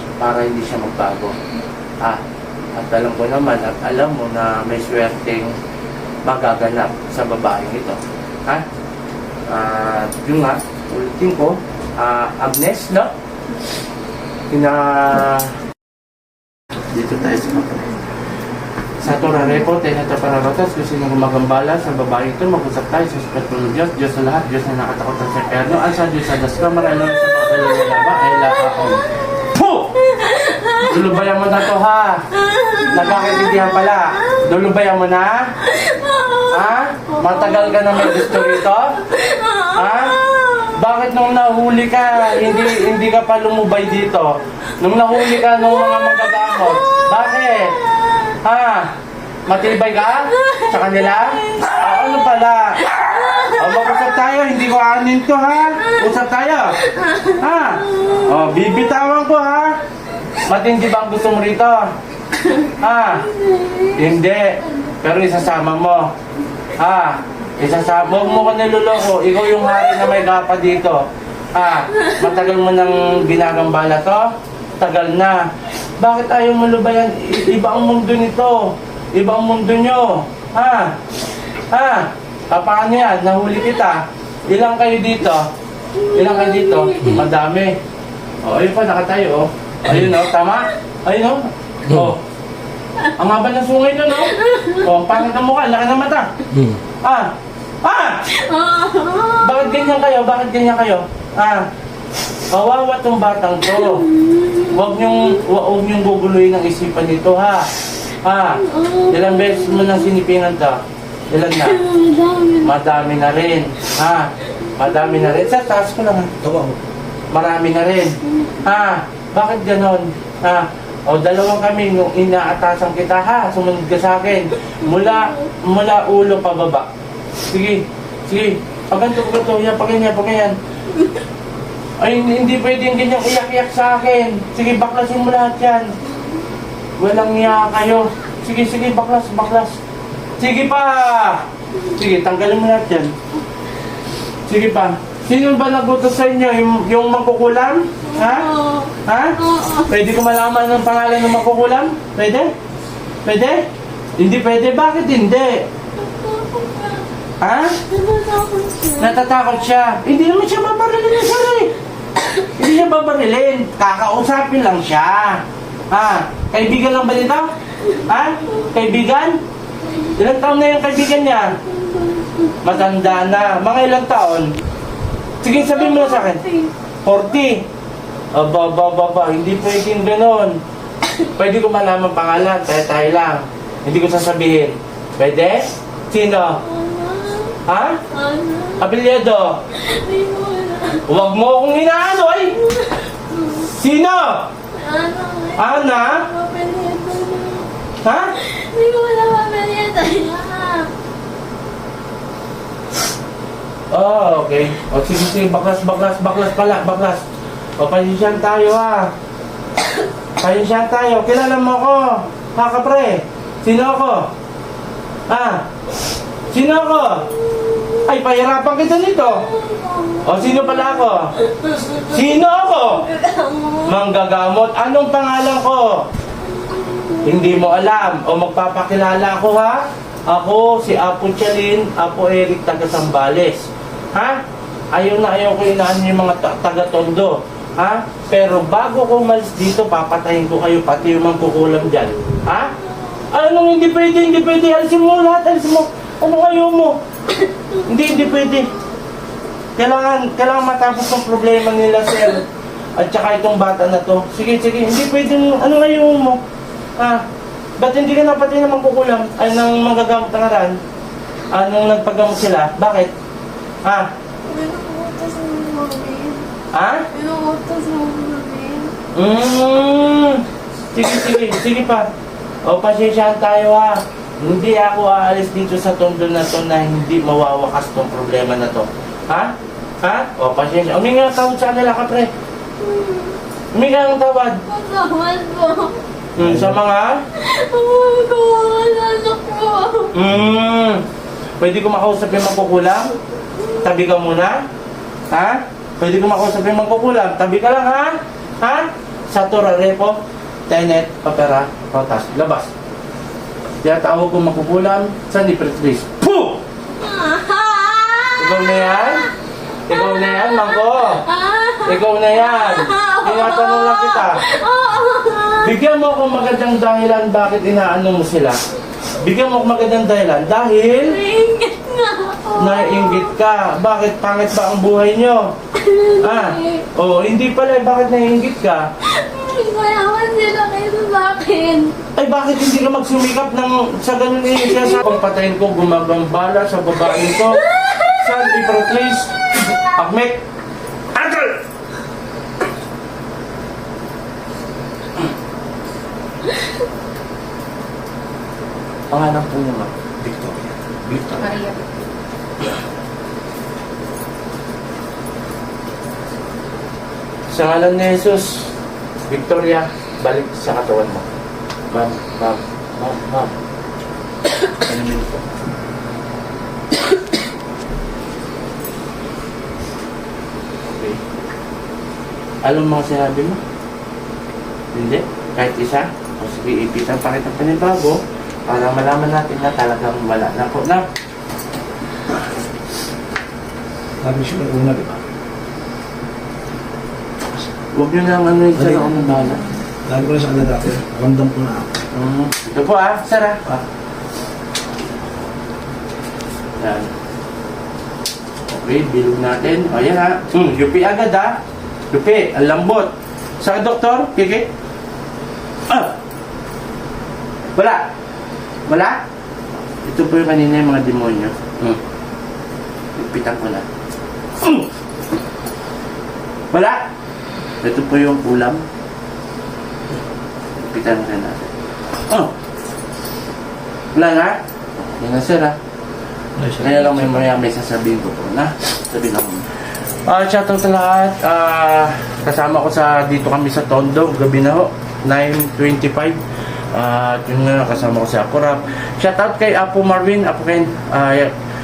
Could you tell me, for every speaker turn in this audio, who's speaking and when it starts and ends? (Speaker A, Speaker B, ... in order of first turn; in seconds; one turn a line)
Speaker A: 0.2-1.4
Speaker A: 2.8-5.5
Speaker A: 6.2-8.6
Speaker A: 9.5-13.1
Speaker A: 14.5-15.5
Speaker A: 16.9-17.9
Speaker A: 19.0-29.9
Speaker B: 30.0-30.9
Speaker A: 30.8-32.3
Speaker B: 32.4-34.0
Speaker A: 32.8-35.6
Speaker B: 35.6-36.5
Speaker A: 36.5-39.0
Speaker B: 37.1-40.7
Speaker A: 39.7-48.9
Speaker B: 42.3-42.9
Speaker B: 45.9-47.0
Speaker B: 47.7-48.3
Speaker A: 49.5-59.8
Speaker B: 50.4-50.9
Speaker B: 51.4-51.8
Speaker B: 53.1-53.7
Speaker B: 56.8-58.5
Speaker A: 60.4-61.9
Speaker B: 62.4-62.7
Speaker A: 62.6-63.3
Speaker B: 63.2-64.0
Speaker A: 63.9-66.1
Speaker A: 66.8-80.9
Speaker A: 81.7-85.5
Speaker B: 86.0-87.2
Speaker A: 86.1-87.8
Speaker A: 88.4-92.2
Speaker A: 93.1-96.3
Speaker B: 94.4-94.8
Speaker A: 97.0-97.3
Speaker A: 97.8-98.2
Speaker B: 98.3-99.9
Speaker A: 99.4-101.6
Speaker A: 102.5-104.1
Speaker B: 103.7-104.8
Speaker A: 104.6-107.7
Speaker A: 108.2-110.8
Speaker B: 108.6-110.0
Speaker A: 111.3-111.9
Speaker B: 111.6-112.7
Speaker A: 112.6-116.3
Speaker C: 116.4-116.8
Speaker A: 117.3-126.9
Speaker A: 127.5-130.6
Speaker A: 132.0-135.9
Speaker A: 137.0-139.8
Speaker A: 140.4-143.1
Speaker A: 144.5-148.5
Speaker B: 148.1-149.9
Speaker A: 149.0-152.5
Speaker A: 153.2-153.6
Speaker A: 154.2-155.7
Speaker B: 156.0-157.0
Speaker A: 157.4-157.8
Speaker B: 157.9-159.2
Speaker A: 159.0-161.7
Speaker A: 162.4-169.4
Speaker A: 170.2-171.6
Speaker B: 171.7-172.8
Speaker A: 172.6-174.5
Speaker A: 175.4-176.5
Speaker B: 175.5-176.7
Speaker A: 177.0-177.6
Speaker A: 178.3-180.6
Speaker A: 181.3-186.6
Speaker B: 186.6-187.6
Speaker A: 187.7-188.0
Speaker B: 188.1-188.8
Speaker A: 188.8-189.6
Speaker B: 189.7-191.0
Speaker A: 191.0-192.6
Speaker B: 192.6-193.7
Speaker A: 193.6-194.5
Speaker B: 194.7-197.7
Speaker A: 195.6-196.3
Speaker A: 198.0-198.3
Speaker B: 198.4-200.9
Speaker A: 203.9-207.2
Speaker A: 207.8-209.1
Speaker A: 210.4-214.3
Speaker A: 215.3-215.6
Speaker A: 216.5-217.3
Speaker B: 217.7-217.9
Speaker A: 218.0-219.5
Speaker B: 219.5-222.1
Speaker A: 220.2-221.4
Speaker A: 222.0-223.1
Speaker B: 223.0-223.9
Speaker A: 223.8-226.1
Speaker B: 226.5-227.5
Speaker A: 227.2-234.4
Speaker A: 234.9-242.7
Speaker A: 243.3-247.0
Speaker B: 247.7-248.6
Speaker A: 247.8-248.7
Speaker A: 249.8-252.4
Speaker A: 253.0-256.4
Speaker A: 257.0-257.2
Speaker A: 257.8-260.8
Speaker A: 261.5-263.1
Speaker A: 263.8-264.1
Speaker B: 264.5-266.5
Speaker A: 266.7-267.1
Speaker B: 267.1-268.9
Speaker A: 269.1-270.4
Speaker A: 270.9-272.1
Speaker A: 272.6-282.3
Speaker B: 282.8-283.4
Speaker A: 283.7-284.6
Speaker B: 284.7-286.0
Speaker A: 286.4-287.2
Speaker B: 287.3-290.1
Speaker A: 290.1-291.0
Speaker A: 291.6-293.1
Speaker A: 293.8-294.6
Speaker A: 295.3-302.7
Speaker A: 303.8-306.6
Speaker B: 307.0-309.1
Speaker A: 308.4-309.3
Speaker A: 309.9-311.3
Speaker B: 309.9-315.7
Speaker A: 311.8-314.4
Speaker A: 315.6-318.6
Speaker A: 319.2-321.2
Speaker B: 321.0-323.3
Speaker A: 322.6-325.5
Speaker B: 325.8-326.9
Speaker A: 326.2-328.9
Speaker B: 329.0-332.0
Speaker A: 332.1-340.4
Speaker B: 337.6-338.4
Speaker A: 341.1-341.6
Speaker A: 349.1-349.9
Speaker C: 350.2-351.6
Speaker A: 357.5-358.7
Speaker A: 359.3-361.3
Speaker A: 361.9-363.5
Speaker A: 364.8-365.4
Speaker A: 370.9-371.2
Speaker A: 372.6-373.6
Speaker A: 374.9-381.1
Speaker C: 384.2-385.2
Speaker A: 387.9-389.8
Speaker C: 388.7-389.4
Speaker C: 390.1-392.0
Speaker A: 392.1-393.8
Speaker A: 396.8-397.1
Speaker A: 398.7-401.6
Speaker A: 402.1-404.7
Speaker A: 405.9-406.1
Speaker A: 407.7-408.1
Speaker A: 408.9-409.2
Speaker A: 410.0-412.0
Speaker A: 413.1-413.9
Speaker A: 414.6-414.9
Speaker A: 416.7-417.1
Speaker A: 417.8-418.8
Speaker A: 420.8-421.7
Speaker A: 424.1-425.8
Speaker C: 426.6-427.4
Speaker A: 426.8-429.7
Speaker A: 430.2-436.4
Speaker A: 436.9-441.5